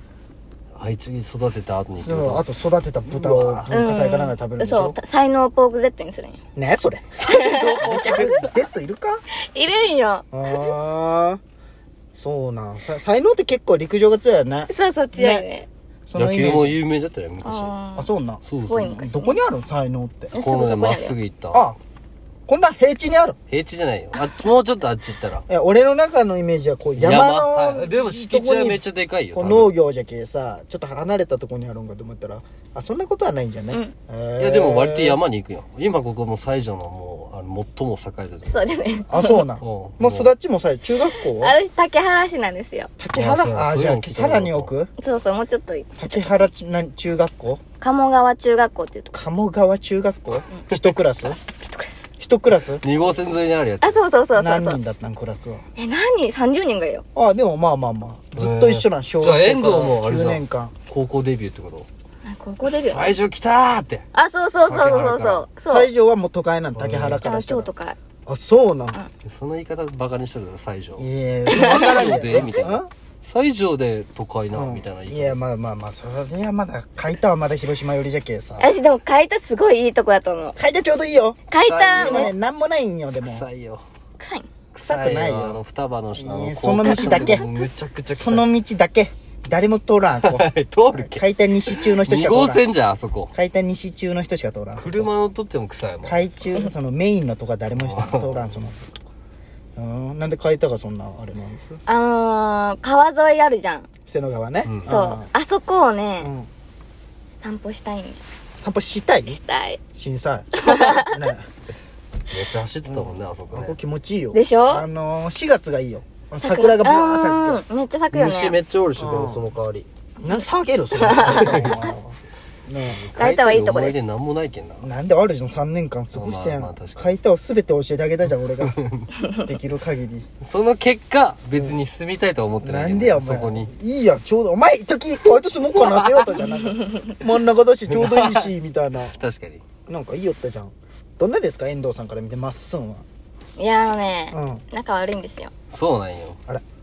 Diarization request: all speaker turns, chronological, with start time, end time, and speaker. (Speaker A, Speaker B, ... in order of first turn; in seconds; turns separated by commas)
Speaker A: 0.8-2.4, Speaker B: 2.0-5.0, Speaker A: 3.1-4.2, Speaker C: 3.7-6.4, Speaker B: 6.5-9.2, Speaker A: 7.2-8.5, Speaker C: 7.3-8.0, Speaker C: 9.5-10.7, Speaker B: 10.3-11.4, Speaker B: 12.1-15.5, Speaker C: 14.7-15.7, Speaker B: 16.1-16.8, Speaker A: 16.1-17.9, Speaker C: 17.4-18.0, Speaker B: 18.0-20.4, Speaker A: 18.4-18.9, Speaker C: 18.6-19.4, Speaker C: 20.3-21.2, Speaker A: 20.3-21.6, Speaker B: 21.5-21.8, Speaker B: 22.5-23.4, Speaker A: 23.5-25.4, Speaker B: 25.5-28.8, Speaker A: 27.0-29.7, Speaker B: 29.3-35.2, Speaker A: 34.4-38.7, Speaker C: 38.4-39.4, Speaker B: 39.1-41.5, Speaker A: 39.6-40.3, Speaker C: 41.4-43.2, Speaker B: 43.0-44.9, Speaker A: 43.1-44.7, Speaker C: 45.0-46.3, Speaker B: 46.0-47.6, Speaker C: 47.8-49.1, Speaker B: 49.1-51.4, Speaker C: 51.5-52.0, Speaker B: 52.2-52.9, Speaker A: 52.8-54.0, Speaker C: 53.8-54.8, Speaker B: 54.4-55.6, Speaker C: 55.8-57.0, Speaker B: 57.1-60.7, Speaker A: 58.4-61.9, Speaker C: 62.2-63.4, Speaker A: 62.7-64.0, Speaker C: 64.1-65.8, Speaker B: 64.7-67.7, Speaker A: 66.8-67.2, Speaker C: 67.2-68.0, Speaker B: 68.2-69.0, Speaker A: 69.2-75.4, Speaker B: 71.0-72.9, Speaker C: 71.5-72.1, Speaker B: 74.5-78.7, Speaker C: 78.6-80.5, Speaker B: 80.5-81.4, Speaker C: 81.5-82.3, Speaker A: 81.5-82.3, Speaker B: 82.0-83.5, Speaker A: 83.3-83.8, Speaker C: 84.2-84.5, Speaker A: 84.7-88.5, Speaker B: 84.8-85.6, Speaker B: 86.2-87.4, Speaker C: 86.3-87.6, Speaker B: 88.1-92.7, Speaker A: 90.2-93.3, Speaker B: 93.3-95.1, Speaker A: 94.8-96.2, Speaker B: 96.0-98.9, Speaker A: 97.8-98.2, Speaker B: 99.8-101.8, Speaker C: 101.9-103.9, Speaker B: 104.1-105.3, Speaker A: 104.7-105.0, Speaker C: 104.9-106.3, Speaker B: 106.2-106.5, Speaker C: 107.4-108.2, Speaker B: 108.6-109.4, Speaker C: 109.3-109.8, Speaker B: 110.0-111.5, Speaker C: 110.6-111.1, Speaker A: 112.3-113.7, Speaker B: 112.9-117.6, Speaker C: 114.3-114.8, Speaker C: 116.4-118.7, Speaker A: 118.1-119.9, Speaker B: 119.0-119.5, Speaker B: 120.2-122.1, Speaker C: 121.0-121.8, Speaker A: 121.2-121.9, Speaker B: 122.7-123.0, Speaker A: 122.9-124.8, Speaker C: 123.2-124.1, Speaker B: 124.8-128.8, Speaker A: 126.1-127.1, Speaker B: 129.3-130.3, Speaker A: 130.4-133.7, Speaker B: 132.6-139.2, Speaker A: 137.9-138.5, Speaker A: 139.2-139.6, Speaker B: 139.9-143.0, Speaker C: 143.6-145.6, Speaker B: 144.3-144.6, Speaker A: 145.6-146.4